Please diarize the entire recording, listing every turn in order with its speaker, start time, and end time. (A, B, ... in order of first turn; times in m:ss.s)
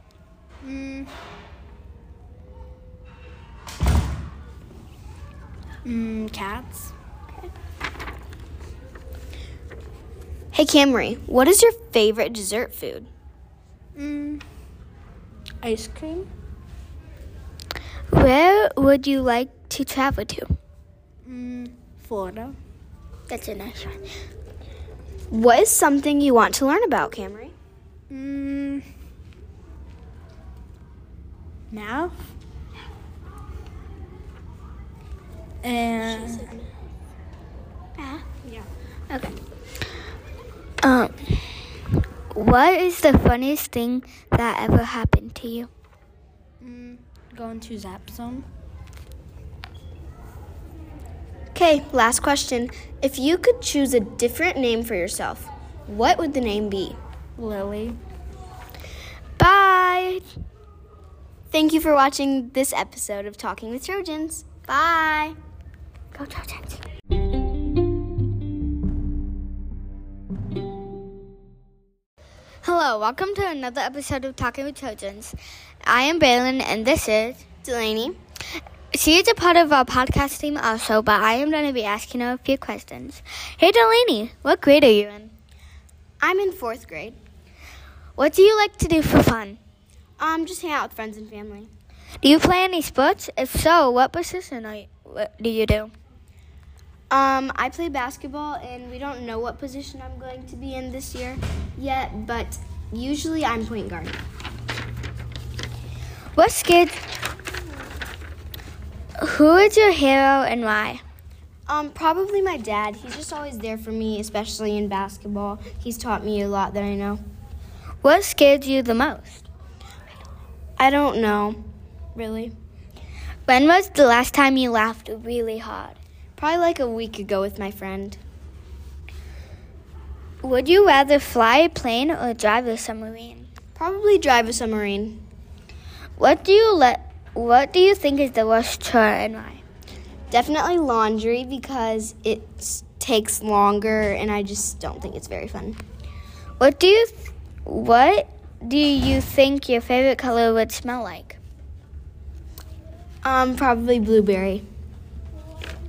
0:00.6-0:01.1 A
0:05.8-0:06.9 A
0:10.5-0:13.1 B
0:14.0-0:14.4 A
0:15.6-0:16.3 A
0:18.1-0:20.5 C
0:21.2-0:22.6 A
0:23.3-0:24.0 C
0:25.3-0:27.6 B
0:28.1-0:28.8 A
0:31.7-0:32.1 A
0:35.6-0:36.6 A
0:38.0-0:38.2 C
0:39.1-0:39.4 C
0:40.8-0:41.1 C
0:42.3-0:45.7 C
0:46.6-0:48.5 A
0:51.5-0:57.0 B
0:57.4-0:58.0 A
0:59.4-1:00.2 C
1:01.5-1:05.4 B
1:06.1-1:06.8 C
1:12.6-1:17.4 C
1:17.6-1:18.2 B
1:18.9-1:25.3 C
1:26.2-1:27.2 B
1:28.2-1:29.6 C
1:30.2-1:31.7 B
1:32.2-1:35.9 C
1:37.1-1:44.2 B
1:46.4-1:47.0 C
1:49.2-1:51.0 C
1:51.7-1:57.2 B
1:58.0-1:59.5 C
2:00.8-2:01.6 B
2:02.2-2:02.6 B
2:03.5-2:06.0 C
2:06.4-2:08.2 B
2:10.4-2:13.5 C
2:13.8-2:15.2 B
2:16.2-2:19.6 C
2:20.3-2:25.8 B
2:26.6-2:31.4 C
2:33.2-2:34.6 B